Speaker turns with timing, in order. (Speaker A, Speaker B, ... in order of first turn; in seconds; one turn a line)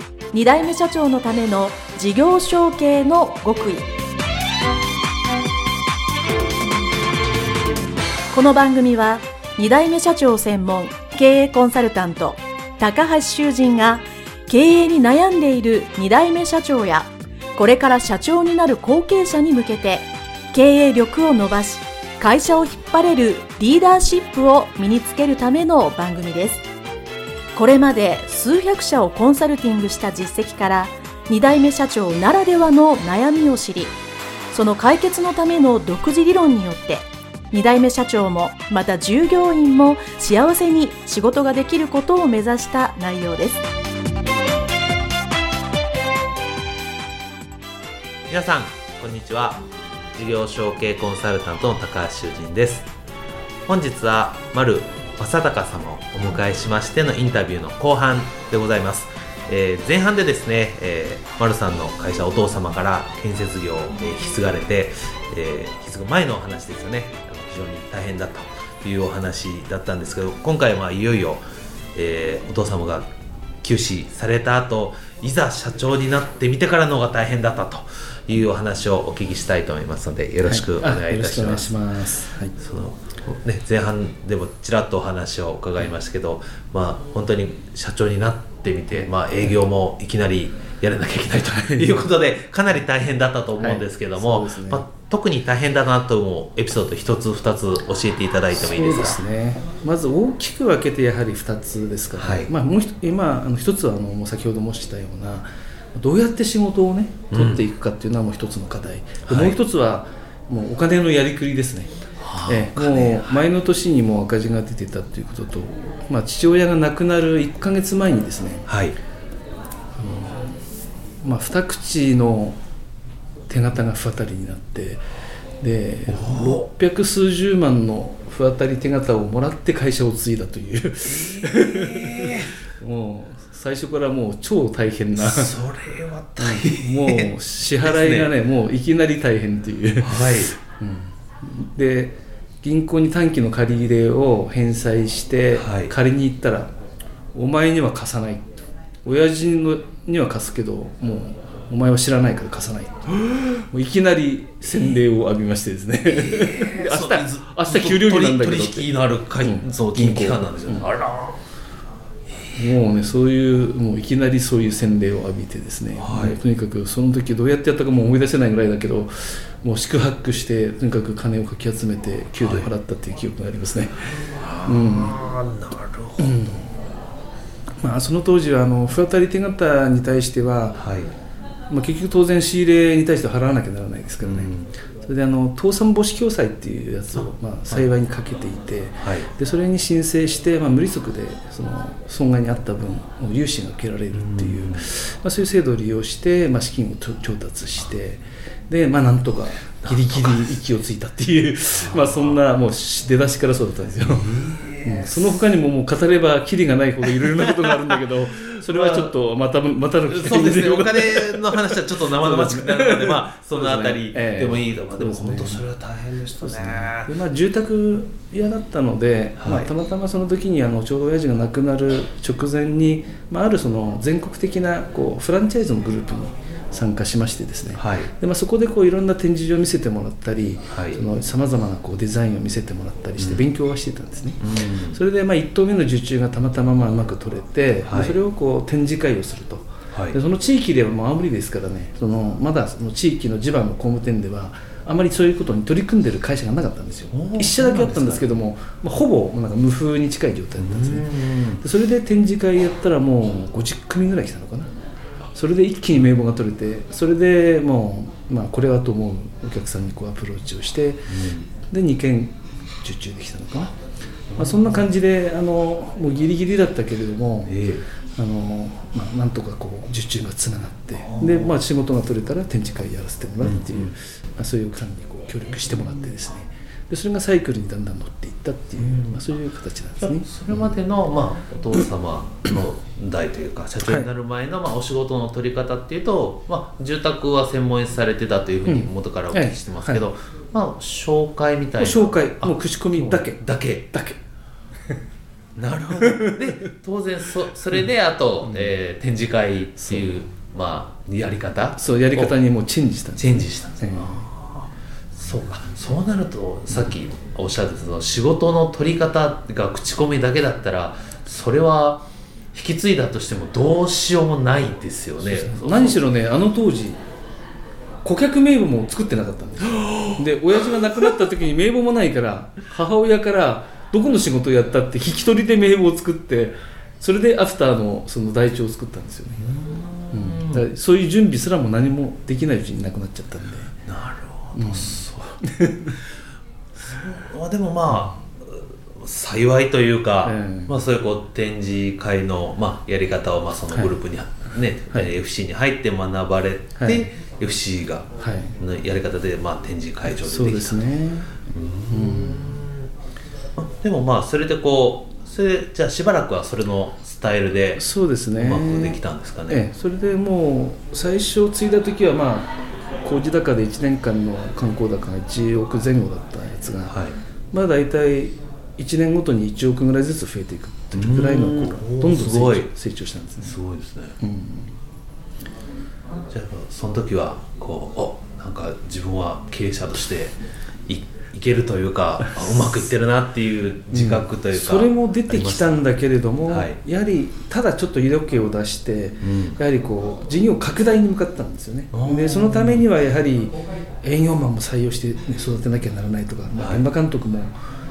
Speaker A: 0.3-3.9
Speaker A: 8.3-26.6
Speaker A: 27.6-33.9
Speaker A: 34.5-43.6
Speaker B: 48.3-52.9
Speaker B: 53.7-71.4
Speaker B: 72.0-73.1
Speaker B: 73.6-81.8
Speaker C: 80.5-82.5
Speaker B: 82.6-99.2
Speaker C: 89.0-89.5
Speaker C: 91.3-92.0
Speaker C: 93.6-94.8
Speaker C: 98.5-118.7
Speaker B: 102.2-102.5
Speaker B: 107.3-107.6
Speaker B: 109.3-109.6
Speaker B: 112.2-113.4
Speaker B: 118.7-119.0
Speaker C: 120.0-120.6
Speaker C: 121.2-122.6
Speaker C: 123.5-125.0
Speaker C: 125.6-135.6
Speaker B: 126.1-126.7
Speaker B: 131.1-132.5
Speaker B: 135.2-138.3
Speaker C: 136.4-146.7
Speaker B: 140.0-140.5
Speaker B: 145.6-145.9
Speaker C: 147.3-160.9
Speaker B: 156.1-161.4
Speaker C: 162.6-174.0
Speaker B: 166.0-166.4
Speaker B: 172.4-172.7
Speaker B: 174.3-176.4
Speaker C: 174.7-175.2
Speaker C: 176.2-176.8
Speaker C: 177.8-180.9
Speaker B: 180.8-181.1
Speaker C: 181.7-215.7
Speaker B: 184.2-184.7
Speaker B: 189.0-189.3
Speaker B: 194.1-194.8
Speaker B: 199.8-200.5
Speaker B: 201.8-202.3
Speaker B: 204.0-205.4
Speaker B: 207.2-208.0
Speaker B: 208.5-209.1
Speaker B: 210.1-217.1
Speaker C: 216.4-254.7
Speaker B: 219.4-219.7
Speaker B: 227.7-228.1
Speaker B: 230.7-231.0
Speaker B: 233.2-233.4
Speaker B: 234.4-235.0
Speaker B: 237.9-238.2
Speaker B: 239.9-240.2
Speaker B: 247.1-248.3
Speaker B: 250.6-251.6
Speaker C: 255.3-263.8
Speaker B: 261.1-261.5
Speaker B: 264.3-264.8
Speaker C: 264.4-267.6
Speaker B: 267.5-267.9
Speaker C: 268.1-280.7
Speaker B: 271.0-271.5
Speaker B: 273.4-273.9
Speaker B: 278.8-279.3
Speaker B: 280.0-293.9
Speaker C: 288.7-290.0
Speaker C: 291.8-294.2
Speaker B: 295.6-302.4
Speaker C: 298.4-298.7
Speaker C: 299.8-300.1
Speaker C: 301.8-304.2
Speaker B: 303.2-316.0
Speaker C: 315.2-317.0
Speaker C: 318.0-329.4
Speaker B: 329.4-330.7
Speaker C: 330.1-333.8
Speaker B: 333.9-335.4
Speaker C: 334.6-336.0
Speaker B: 336.8-350.9
Speaker C: 337.9-338.2
Speaker C: 340.2-340.8
Speaker C: 346.8-347.1
Speaker C: 348.2-348.6
Speaker C: 350.2-352.6
Speaker B: 351.5-352.9
Speaker B: 353.6-359.7
Speaker C: 357.8-367.0
Speaker B: 366.9-367.2
Speaker C: 367.5-373.6
Speaker B: 370.9-372.7
Speaker B: 373.4-374.2
Speaker C: 374.2-374.7
Speaker B: 376.3-385.9
Speaker C: 383.9-397.5
Speaker B: 386.5-386.8
Speaker B: 389.2-389.6
Speaker B: 391.9-392.9
Speaker B: 396.6-396.8